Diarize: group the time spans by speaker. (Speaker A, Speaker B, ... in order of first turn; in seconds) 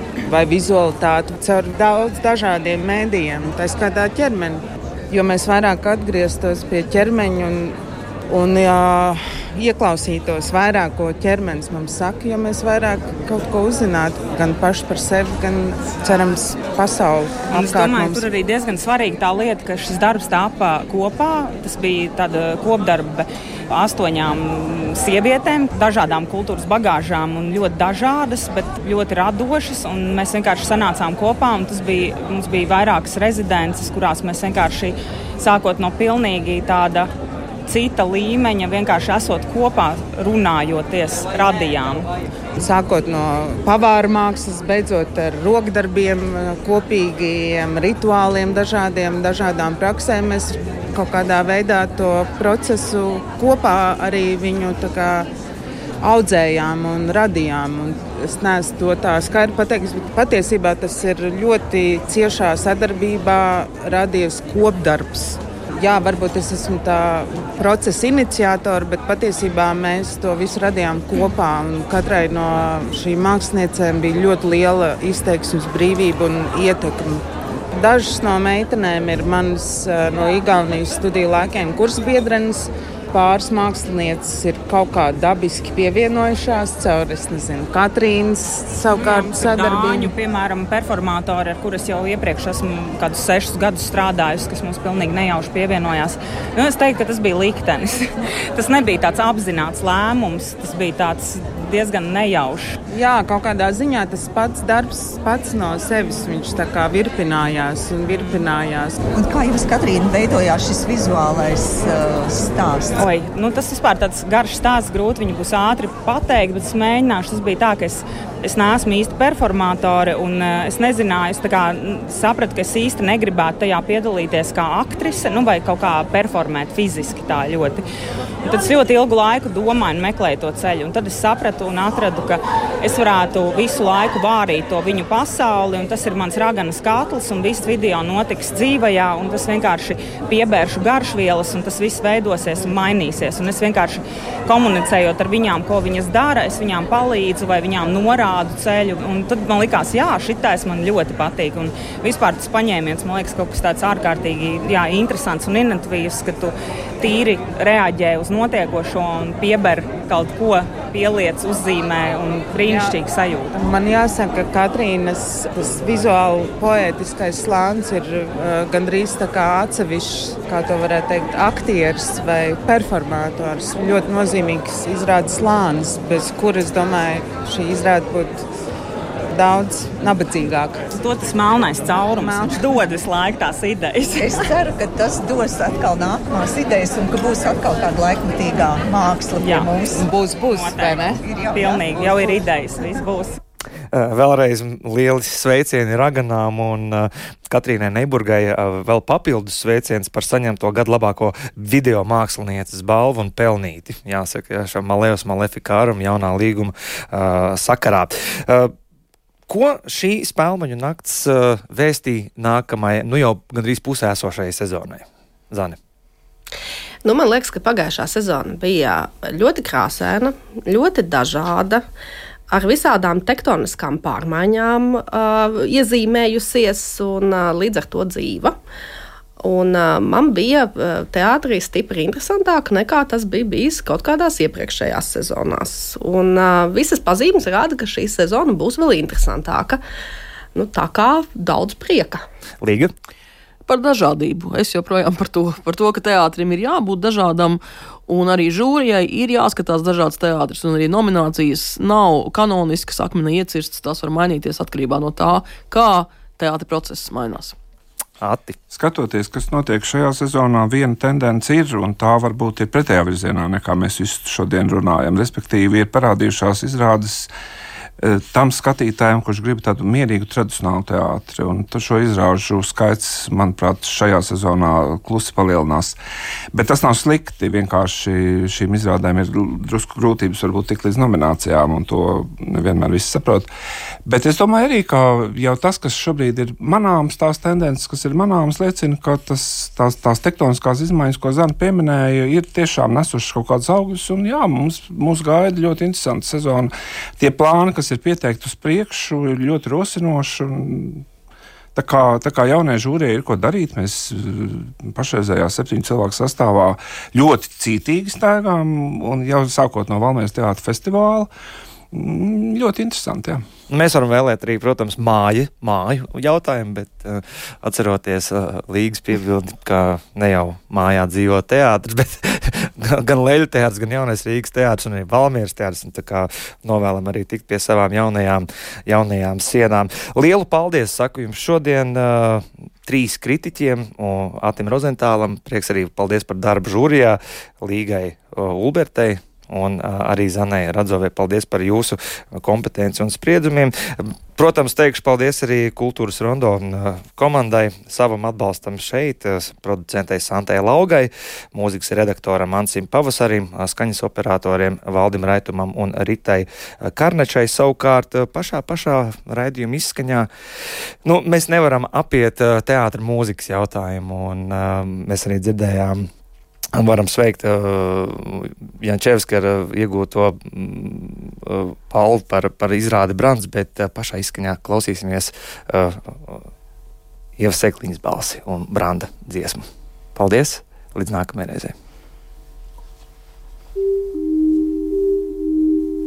Speaker A: 0.2-18.3, 42.5-55.3, 56.0-90.1, 102.9-109.0, 162.6-163.0, 163.5-178.4, 179.3-180.8, 182.2-182.6, 190.0-190.7
Speaker B: 17.5-37.1, 37.6-42.1, 88.9-102.8, 113.0-127.8, 128.4-163.5, 180.9-184.5, 189.4-189.8, 190.4-193.4
Speaker C: 109.1-113.0, 184.2-192.4
Speaker D: 193.9-208.7, 209.5-215.8, 242.6-242.9, 258.2-258.6, 313.7-360.3, 361.0-366.1, 366.7-376.5, 377.4-381.7
Speaker E: 217.0-221.8, 222.5-228.6, 229.4-239.8, 240.5-242.2
Speaker F: 243.7-257.5
Speaker G: 258.7-267.3, 268.0-276.0, 276.5-283.5, 284.1-301.1, 301.7-311.3, 311.9-313.4